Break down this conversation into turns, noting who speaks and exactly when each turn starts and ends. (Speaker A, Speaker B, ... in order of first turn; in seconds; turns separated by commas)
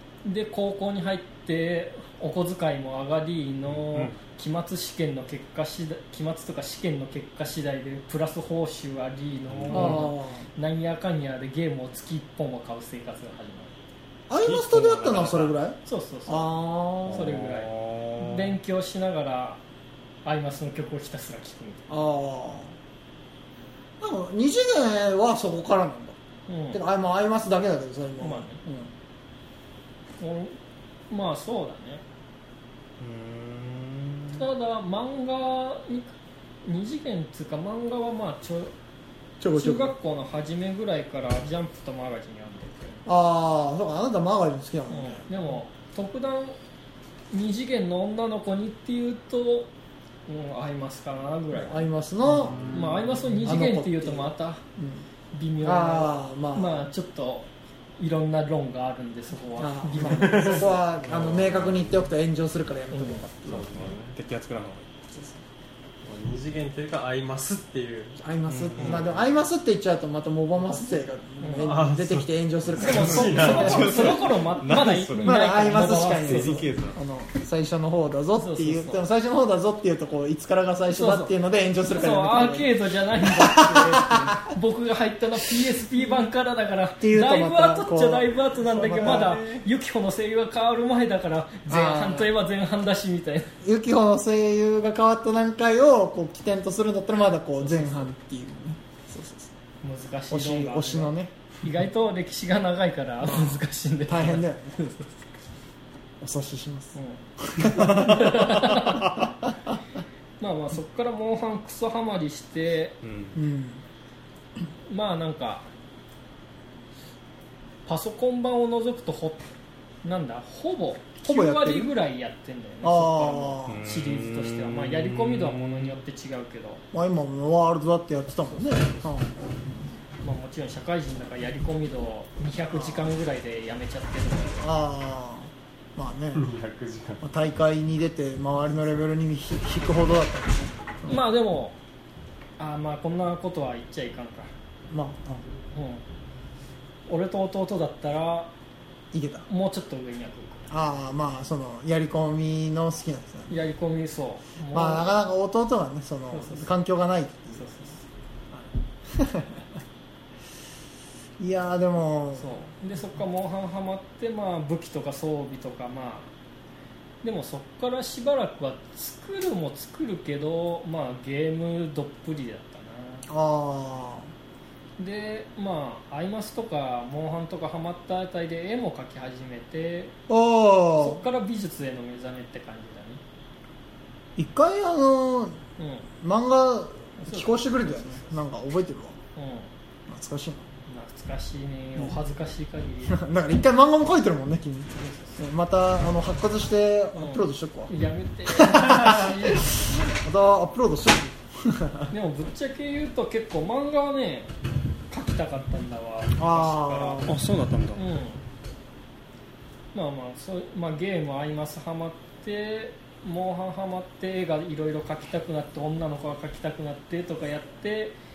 Speaker A: 0.2-13.8, Speaker B: 3.7-4.2, Speaker B: 9.5-10.1, Speaker C: 9.7-10.5, Speaker C: 14.3-17.4, Speaker D: 14.4-15.5, Speaker A: 15.8-19.6, Speaker B: 17.1-18.6, Speaker A: 20.2-21.9, Speaker C: 21.9-22.7, Speaker C: 24.0-26.2, Speaker A: 26.5-26.8, Speaker C: 26.7-28.9, Speaker A: 28.2-28.6, Speaker A: 30.2-30.6, Speaker A: 31.1-32.0, Speaker B: 33.0-34.5, Speaker A: 34.3-36.1, Speaker A: 36.6-38.7, Speaker C: 39.4-39.9, Speaker A: 39.5-43.1, Speaker C: 43.1-45.3, Speaker A: 44.9-46.6, Speaker A: 47.3-49.7, Speaker A: 50.3-51.9, Speaker C: 51.5-52.7, Speaker B: 52.3-53.5, Speaker A: 52.6-54.6, Speaker C: 53.4-55.1, Speaker A: 55.3-57.5, Speaker C: 55.6-56.9, Speaker A: 58.0-60.7, Speaker C: 59.6-63.9, Speaker D: 60.0-61.3, Speaker B: 61.1-61.8, Speaker A: 62.9-63.2, Speaker D: 63.5-64.1, Speaker B: 63.8-64.9, Speaker C: 65.1-65.4, Speaker D: 66.0-68.2, Speaker C: 68.2-74.1, Speaker B: 68.5-69.1, Speaker D: 68.8-69.1, Speaker A: 71.4-71.7, Speaker D: 71.5-74.1, Speaker B: 72.7-77.0, Speaker A: 72.8-76.6, Speaker C: 75.2-82.7, Speaker A: 78.3-79.0, Speaker A: 80.9-81.3, Speaker A: 81.9-93.5, Speaker C: 83.2-84.4, Speaker C: 87.0-89.4, Speaker B: 88.8-89.7, Speaker C: 91.7-92.3, Speaker C: 93.6-99.5, Speaker A: 97.6-98.0, Speaker A: 99.8-105.2, Speaker C: 100.3-101.3, Speaker C: 103.2-104.8, Speaker C: 106.2-108.9, Speaker A: 107.0-109.1, Speaker B: 107.7-109.2, Speaker A: 110.4-113.0, Speaker B: 113.0-113.4, Speaker C: 113.3-113.8, Speaker A: 114.9-115.7, Speaker A: 117.9-119.4, Speaker A: 120.0-126.8, Speaker C: 121.2-121.9, Speaker C: 122.8-123.8, Speaker B: 123.7-126.0, Speaker C: 126.9-129.5, Speaker A: 128.5-128.8, Speaker A: 130.2-134.7, Speaker C: 132.7-133.1, Speaker C: 134.6-136.4, Speaker D: 136.3-137.2, Speaker C: 137.2-141.2, Speaker A: 141.1-141.8, Speaker A: 142.6-144.5, Speaker C: 144.9-145.4, Speaker A: 145.7-146.0, Speaker A: 147.1-148.5, Speaker C: 149.1-149.5, Speaker A: 149.5-150.8, Speaker C: 150.7-153.5, Speaker A: 153.5-155.1, Speaker C: 154.7-157.7, Speaker A: 156.3-156.7, Speaker A: 157.6-158.1, Speaker C: 158.5-159.7, Speaker C: 161.4-162.7, Speaker A: 162.4-166.3, Speaker A: 167.2-173.3, Speaker C: 173.3-174.3, Speaker A: 175.0-180.1, Speaker C: 180.3-181.2, Speaker A: 181.0-183.2, Speaker C: 184.4-185.6, Speaker A: 185.8-186.1, Speaker C: 186.2-189.2, Speaker A: 187.2-188.4, Speaker A: 189.3-189.7, Speaker C: 190.1-190.7, Speaker A: 190.9-193.2, Speaker C: 193.1-197.9, Speaker A: 194.9-195.4, Speaker A: 197.1-199.8, Speaker C: 198.5-202.1, Speaker A: 202.1-204.5, Speaker A: 205.1-207.3, Speaker C: 206.4-207.4, Speaker B: 207.3-208.0, Speaker A: 208.0-208.4, Speaker A: 209.9-218.2